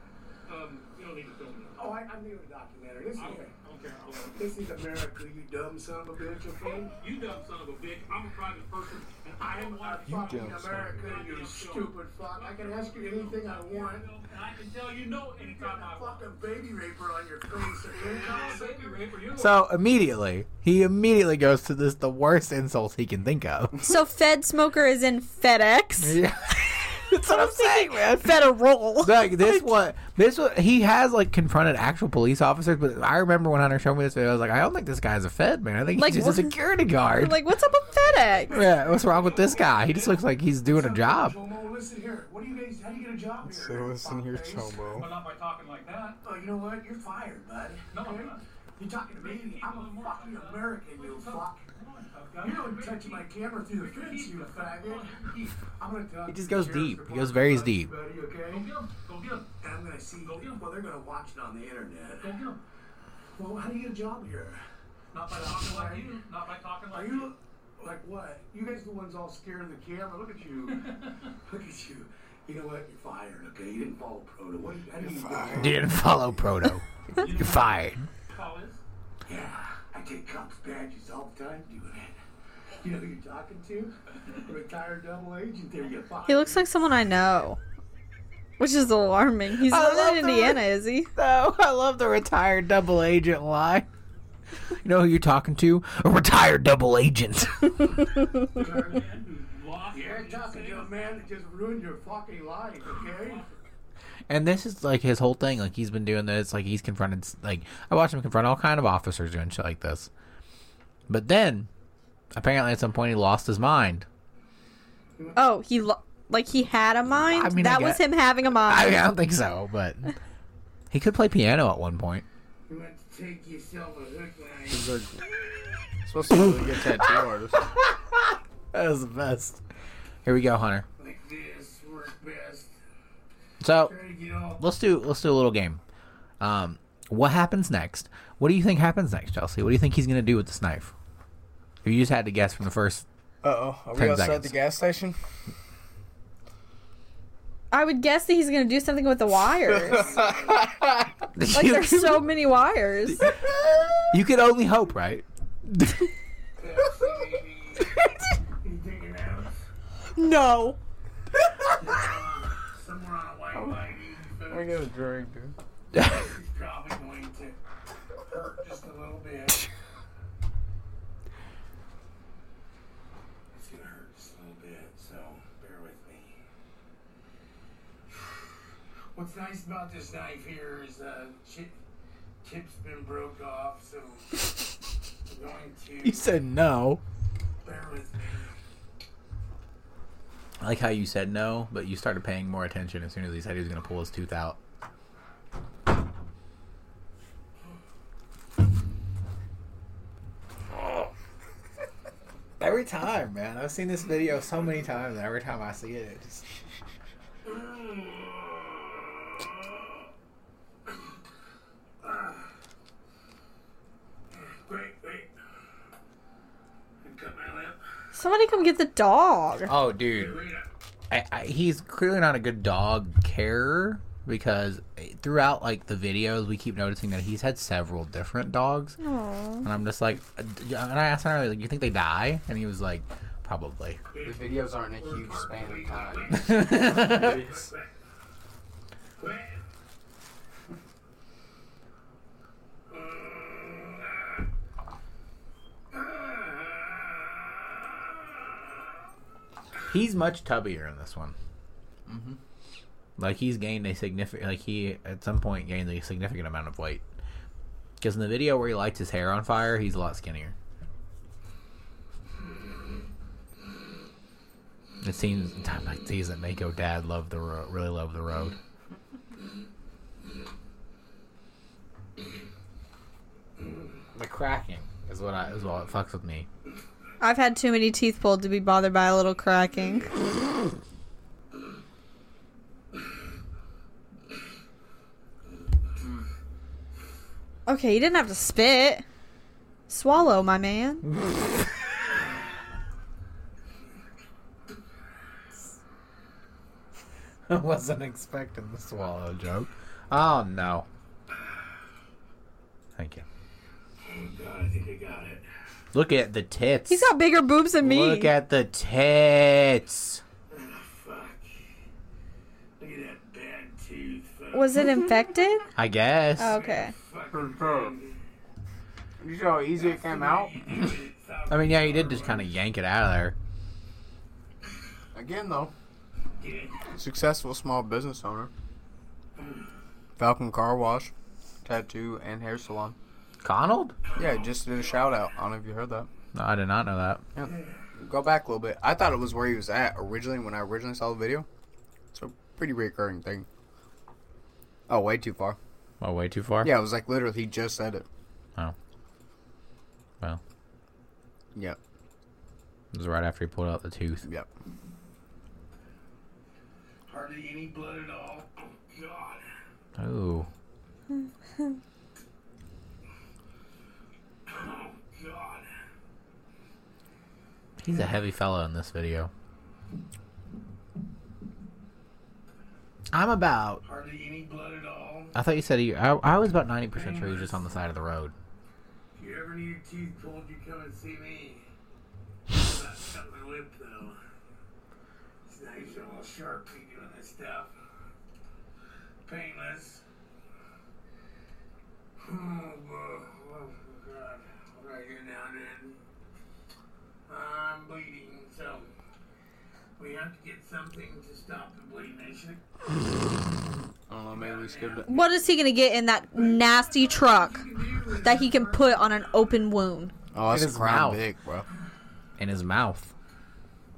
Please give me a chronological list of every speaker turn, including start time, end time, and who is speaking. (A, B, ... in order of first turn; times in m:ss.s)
0:00.5-0:01.9 A
0:01.8-0:03.5 B
0:03.2-0:04.4 A
0:04.3-0:06.9 B
0:07.0-0:16.3 A
0:09.4-0:14.1 B
0:10.0-0:10.9 C
0:15.3-0:19.2 B
0:18.0-0:19.6 A
0:19.3-0:23.9 D
0:23.8-0:26.2 E
0:26.0-0:37.4 D
0:27.2-0:29.6 E
0:36.0-0:36.6 E
0:37.2-0:38.6 E
0:37.9-0:40.2 A
0:38.5-0:41.4 D
0:38.6-0:40.0 B
0:40.6-0:44.8 B
0:43.4-0:45.1 C
0:44.9-0:46.2 A
0:46.2-0:51.7 B
0:47.9-0:48.4 A
0:49.0-0:55.5 A
0:52.4-0:58.7 B
0:56.3-0:57.9 D
0:58.5-0:59.6 A
0:59.6-1:02.4 B
1:00.2-1:00.6 A
1:02.2-1:02.6 A
1:03.4-1:04.6 B
1:05.1-1:07.3 A
1:05.3-1:06.2 B
1:06.9-1:15.9 B
1:10.8-1:11.1 A
1:15.0-1:15.9 C
1:15.5-1:18.1 D
1:17.2-1:18.8 A
1:19.3-1:22.2 B
1:22.8-1:26.7 B
1:26.3-1:27.6 E
1:28.6-1:31.1 E
1:29.6-1:33.9 D
1:34.8-1:37.9 D
1:38.4-1:41.3 A
1:38.6-1:39.0 B
1:39.9-1:43.4 B
1:42.9-1:43.6 A
1:44.3-1:50.1 D
1:51.1-1:51.7 D
1:52.3-1:54.1 D
1:55.2-1:55.4 B
1:55.4-1:59.0 E
1:57.3-2:00.2 D
2:00.9-2:02.2 D
2:02.7-2:05.0 B
2:04.7-2:05.2 C
2:06.0-2:07.7 C
2:07.7-2:09.6 D
2:10.2-2:10.9 D
2:11.0-2:12.7 B
2:13.6-2:14.0 D
2:13.7-2:14.6 B
2:14.6-2:15.8 D
2:16.4-2:20.9 D
2:21.8-2:23.1 D
2:23.4-2:25.2 C
2:23.9-2:24.6 D
2:27.7-2:30.2 E
2:29.8-2:30.8 B
2:31.4-2:32.3 D
2:31.5-2:33.3 E
2:34.1-2:36.1 D
2:36.6-2:38.0 B
2:38.6-2:39.6 B
2:40.2-2:40.8 E
2:41.7-2:44.8 B
2:43.5-2:43.8 C
2:44.5-2:45.5 C
2:46.0-2:46.2 D
2:46.1-2:47.6 B
2:48.3-2:49.7 B
2:53.5-2:56.4 B
2:59.2-3:01.7 B
3:02.4-3:04.6 B
3:05.3-3:06.3 B
3:06.0-3:07.0 D
3:07.6-3:08.6 B
3:10.6-3:14.6 D
3:22.6-3:26.4 D
3:27.4-3:28.8 B
3:32.0-3:32.5 B
3:34.3-3:35.3 B
3:37.0-3:37.8 B
3:38.1-3:39.7 E
3:39.7-3:40.4 D
3:40.0-3:40.7 B
3:41.1-3:49.0 D
3:49.0-3:49.7 E
3:49.6-3:54.0 D
3:54.1-3:57.9 B
3:54.2-3:56.3 C
3:56.3-3:57.4 D
3:57.1-3:57.7 C
3:59.2-3:59.6 B
4:02.9-4:04.0 B
4:09.9-4:11.4 D
4:12.1-4:12.4 C
4:13.2-4:17.0 D
4:18.0-4:20.6 D
4:25.0-4:28.6 D
4:34.1-4:36.5 D
4:37.2-4:40.1 E
4:47.7-4:49.0 E
4:49.9-4:51.1 E
4:57.5-5:00.9 D
5:03.0-5:03.2 D
5:04.0-5:05.5 B
5:05.9-5:07.1 D
5:06.9-5:08.3 E
5:07.8-5:10.2 D
5:10.5-5:11.5 B
5:12.8-5:15.2 B
5:14.5-5:15.7 E
5:15.8-5:16.6 D
5:16.4-5:16.9 E
5:16.4-5:18.2 B
5:17.6-5:17.8 C
5:19.2-5:20.8 C
5:19.6-5:22.5 B
5:21.5-5:23.4 D
5:25.1-5:25.7 C
5:26.4-5:26.9 B
5:26.9-5:28.5 C
5:30.2-5:31.1 C
5:31.6-5:33.0 C
5:33.4-5:34.0 D
5:34.2-5:36.1 C
5:36.3-5:37.2 D
5:37.4-5:41.5 C
5:42.1-5:43.5 C
5:44.9-5:45.6 C
5:46.0-5:46.7 D
5:46.6-5:48.1 C
5:52.9-5:54.2 D
5:57.1-5:59.5 B
6:00.0-6:00.5 D
6:04.5-6:05.7 B
6:07.8-6:09.3 D
6:13.1-6:13.8 D
6:13.8-6:15.4 B
6:15.3-6:18.3 D
6:16.9-6:17.6 B
6:19.2-6:21.6 B
6:22.5-6:24.2 B
6:25.5-6:27.7 B
6:29.2-6:30.0 B
6:32.2-6:36.0 B
6:37.3-6:38.9 B
6:40.0-6:42.6 B
6:44.1-6:45.1 C
6:44.3-6:45.3 B
6:45.1-6:47.7 E
6:46.4-6:49.1 B
6:48.2-6:50.1 E
6:50.3-6:51.7 C
6:50.5-6:51.2 D
6:52.4-6:53.1 D